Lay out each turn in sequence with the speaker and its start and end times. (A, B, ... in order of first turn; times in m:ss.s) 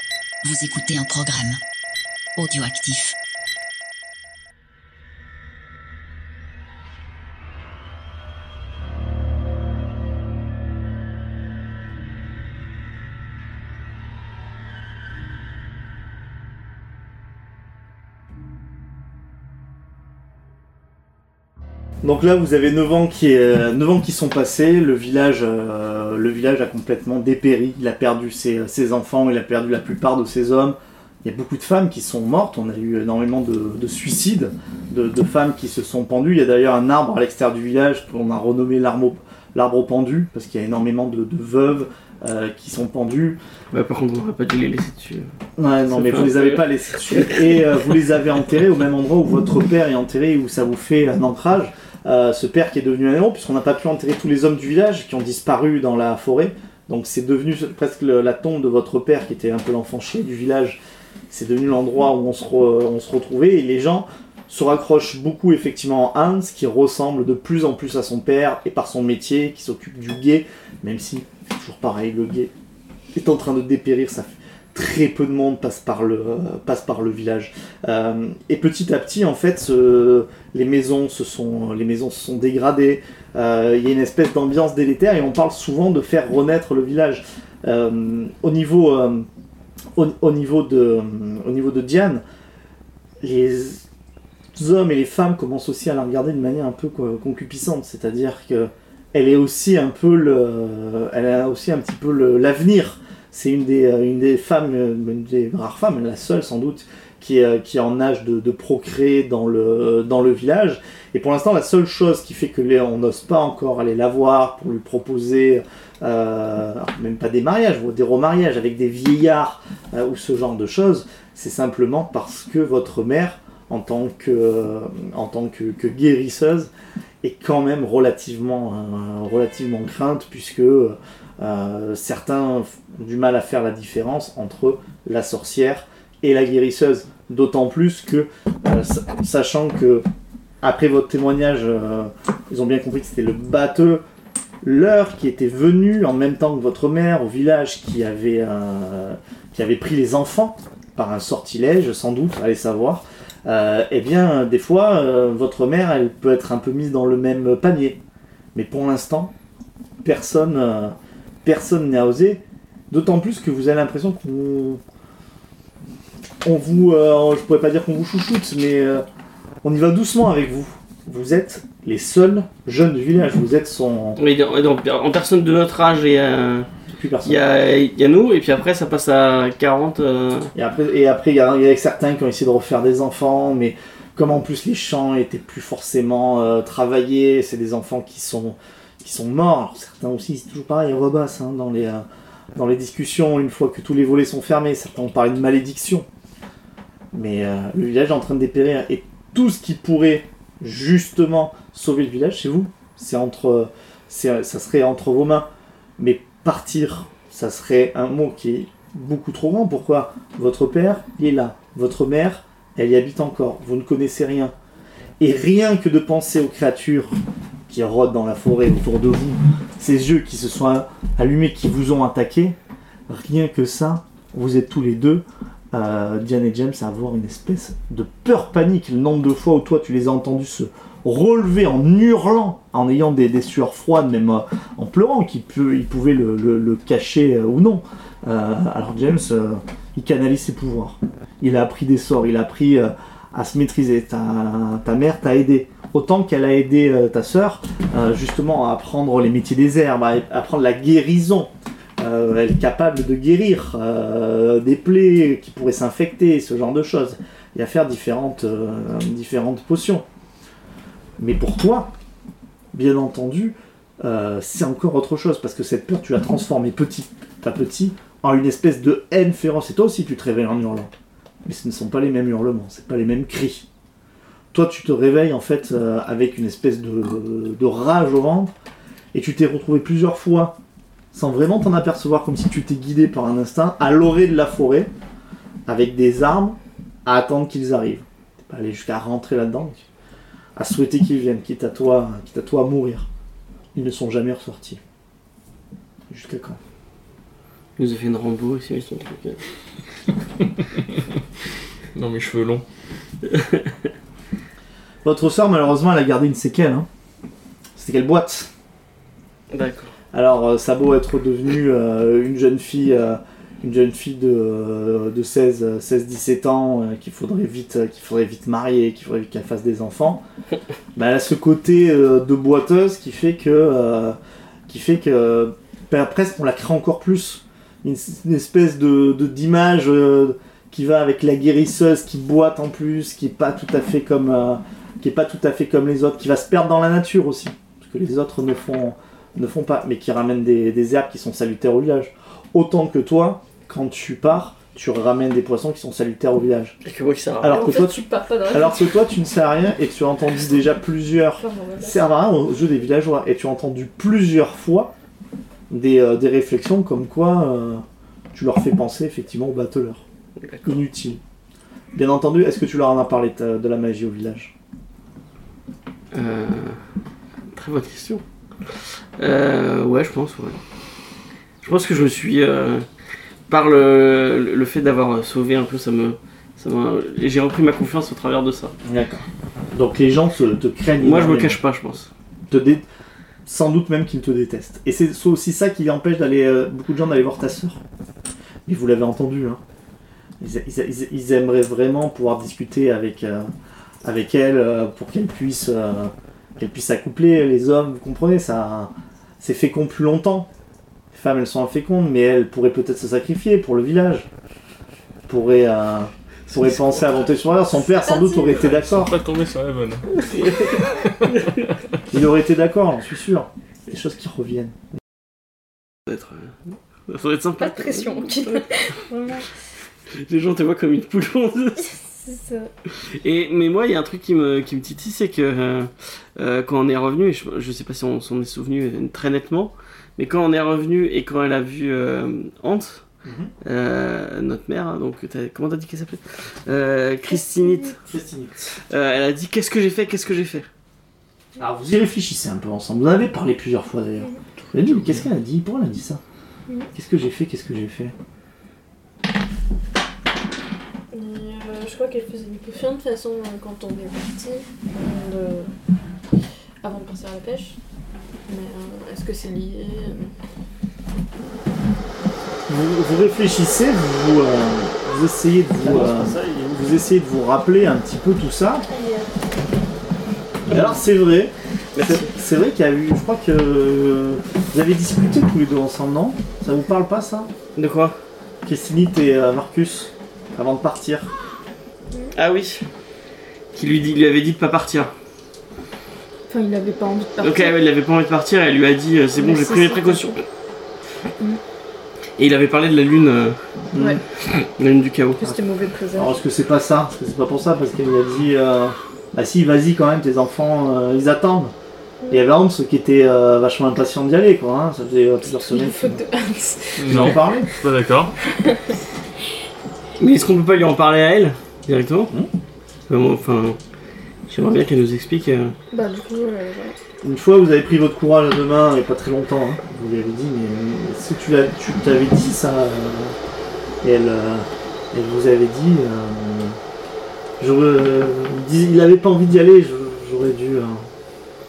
0:00.4-0:01.6 A
0:02.4-0:03.1 A
0:22.0-0:43.4 B
0:43.7-0:45.3 C
0:45.6-1:00.8 B
0:45.9-0:47.4 C
1:01.3-1:12.5 B
1:13.1-1:29.3 B
1:30.0-1:32.2 B
1:33.2-1:33.8 B
1:34.5-2:06.7 B
2:07.2-2:20.0 B
2:20.6-2:24.0 B
2:24.6-2:38.0 B
2:38.5-2:39.3 B
2:40.0-2:44.8 B
2:46.4-2:49.0 B
2:49.6-2:54.2 B
2:54.2-2:56.7 C
2:56.9-2:57.4 B
2:57.2-3:00.5 C
3:00.5-3:12.0 B
3:12.6-3:16.1 B
3:17.1-3:34.5 B
3:35.2-3:42.6 B
3:43.1-4:20.0 B
4:21.2-4:21.9 B
4:22.7-4:30.9 B
4:31.4-4:33.7 B
4:34.5-4:38.5 B
4:39.1-4:40.6 B
4:41.1-4:44.9 B
4:45.6-4:49.8 B
4:50.6-4:53.1 B
4:53.7-4:54.8 B
4:56.1-4:56.6 B
4:57.8-4:59.4 C
5:01.9-5:02.6 D
5:03.2-5:03.9 C
5:05.0-5:06.9 B
5:07.8-5:08.5 B
5:09.5-5:09.9 C
5:10.1-5:20.2 B
5:20.9-5:24.2 B
5:24.7-5:46.8 B
5:46.8-5:47.6 C
5:47.4-5:54.9 B
5:47.4-5:48.9 E
5:51.4-5:52.0 E
5:55.7-6:00.0 B
6:00.4-6:00.8 C
6:00.6-6:01.2 B
6:01.9-6:04.5 B
6:06.1-6:06.8 C
6:07.5-6:08.2 C
6:09.2-6:10.6 C
6:11.6-6:12.9 C
6:13.5-6:18.7 C
6:18.8-6:21.6 B
6:21.0-6:22.1 C
6:22.5-6:22.8 B
6:23.4-6:27.8 B
6:28.6-6:29.6 B
6:30.4-6:33.5 B
6:34.0-6:40.5 B
6:41.1-6:44.3 B
6:45.3-6:49.2 B
6:47.8-6:48.7 E
6:48.5-6:50.2 D
6:52.1-6:54.8 B
6:56.1-6:58.6 C
6:57.6-6:59.4 E
7:00.1-7:01.9 C
7:02.2-7:02.7 E
7:03.1-7:13.0 C
7:13.2-7:13.5 B
7:13.6-7:18.0 C
7:17.3-7:18.0 E
7:18.0-7:18.6 B
7:18.9-7:20.7 C
7:21.6-7:26.2 B
7:24.8-7:25.2 C
7:26.9-7:28.1 B
7:31.1-7:35.7 E
7:36.8-7:37.8 E
7:38.5-7:40.3 E
7:42.7-7:48.9 B
7:45.8-7:46.8 C
7:48.9-7:49.3 E
7:50.7-7:57.5 B
7:50.7-7:51.0 C
7:51.9-7:52.3 C
7:57.8-7:58.2 C
7:58.6-8:01.3 B
8:02.3-8:02.8 C
8:03.7-8:05.1 C
8:06.5-8:07.8 E
8:07.4-8:10.4 C
8:09.4-8:10.4 E
8:12.4-8:13.6 C
8:13.9-8:14.2 B
8:14.0-8:14.2 E
8:14.4-8:15.4 C
8:15.4-8:16.3 E
8:16.1-8:21.7 B
8:22.3-8:26.2 B
8:25.7-8:27.7 E
8:27.0-8:27.7 B
8:27.0-8:28.3 D
8:28.5-8:29.0 E
8:30.2-8:32.3 C
8:33.1-8:33.8 C
8:34.5-8:35.8 C
8:35.9-8:37.0 E
8:37.2-8:43.4 B
8:44.0-8:46.8 B
8:47.6-8:51.0 B